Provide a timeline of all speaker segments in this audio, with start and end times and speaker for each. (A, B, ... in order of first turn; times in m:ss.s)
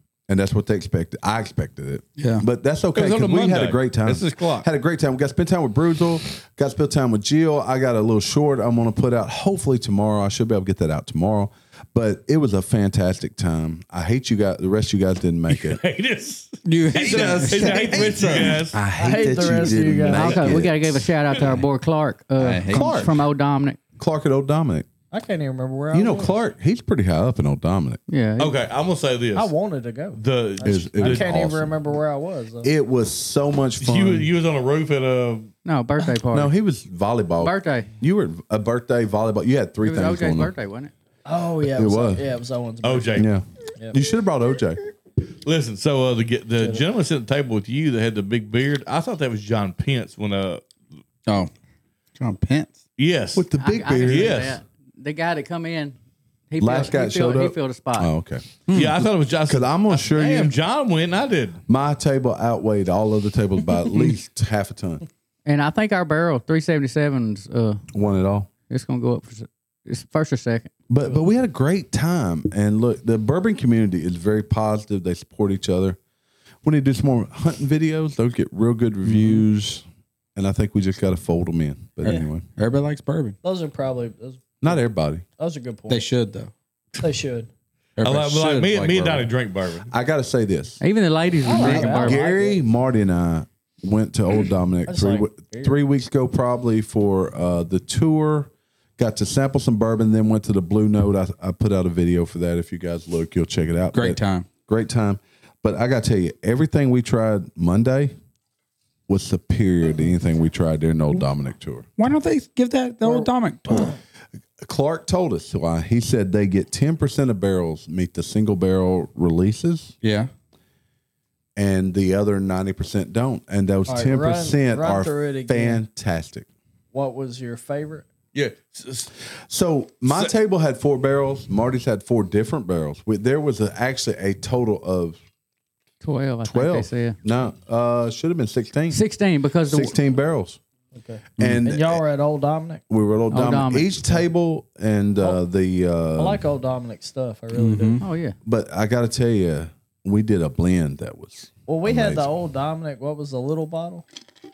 0:00.3-0:15.8 A
0:02.2-0:02.4 B
0:02.9-0:04.6 C
0:15.5-0:18.8 C
0:16.6-0:18.6 B
0:16.9-0:21.1 A
0:19.0-0:20.5 D
0:20.0-0:23.8 E
0:22.4-0:23.0 B
0:22.7-0:23.2 A
0:24.0-0:24.9 A
0:25.1-0:26.4 D
0:25.9-0:28.0 A
0:28.1-0:28.6 E
0:28.4-0:29.5 C
0:29.3-0:30.2 D
0:30.1-0:31.4 C
0:30.6-0:31.7 A
0:31.0-0:32.7 D
0:32.6-0:34.3 A
0:33.8-0:35.5 C
0:35.6-0:36.5 E
0:36.3-0:40.5 A
0:37.4-0:37.9 E
0:39.8-0:40.9 E
0:41.2-0:43.2 D
0:41.7-0:42.2 A
0:42.8-0:43.3 C
0:43.1-0:44.8 A
0:45.4-0:50.6 C
0:52.2-0:52.8 B
0:53.0-0:53.5 C
0:53.4-0:54.4 A
0:53.6-0:55.9 E
0:54.0-0:54.6 C
0:56.5-0:58.1 E
0:56.6-0:58.4 A
0:58.7-0:58.9 B
0:58.7-1:01.6 C
0:59.4-1:00.6 A
1:01.7-1:05.0 A
1:05.4-1:07.8 E
1:07.9-1:08.5 A
1:08.6-1:10.7 E
1:10.9-1:16.0 A
1:16.6-1:19.8 A
1:19.0-1:19.4 B
1:20.4-1:22.5 A
1:22.0-1:23.4 B
1:23.4-1:24.8 D
1:24.6-1:25.2 A
1:25.4-1:26.1 D
1:25.9-1:26.5 B
1:27.0-1:27.5 D
1:28.0-1:29.2 B
1:28.0-1:29.9 C
1:29.9-1:30.8 A
1:30.8-1:32.2 E
1:31.4-1:32.6 D
1:31.6-1:48.1 A
1:34.9-1:35.8 D
1:43.9-1:44.5 B
1:49.1-1:51.9 A
1:52.0-1:54.0 B
1:54.6-1:59.9 A
2:00.0-2:00.3 B
2:01.6-2:06.5 A
2:03.9-2:05.8 D
2:06.9-2:08.0 D
2:08.3-2:09.1 C
2:09.5-2:15.2 A
2:16.0-2:17.2 E
2:16.4-2:19.0 A
2:18.9-2:19.9 E
2:19.6-2:20.6 A
2:20.9-2:22.8 D
2:21.4-2:22.0 A
2:22.9-2:26.4 A
2:23.3-2:24.2 E
2:26.2-2:28.0 D
2:27.5-2:28.1 B
2:28.0-2:28.3 E
2:28.4-2:32.3 A
2:31.7-2:34.0 D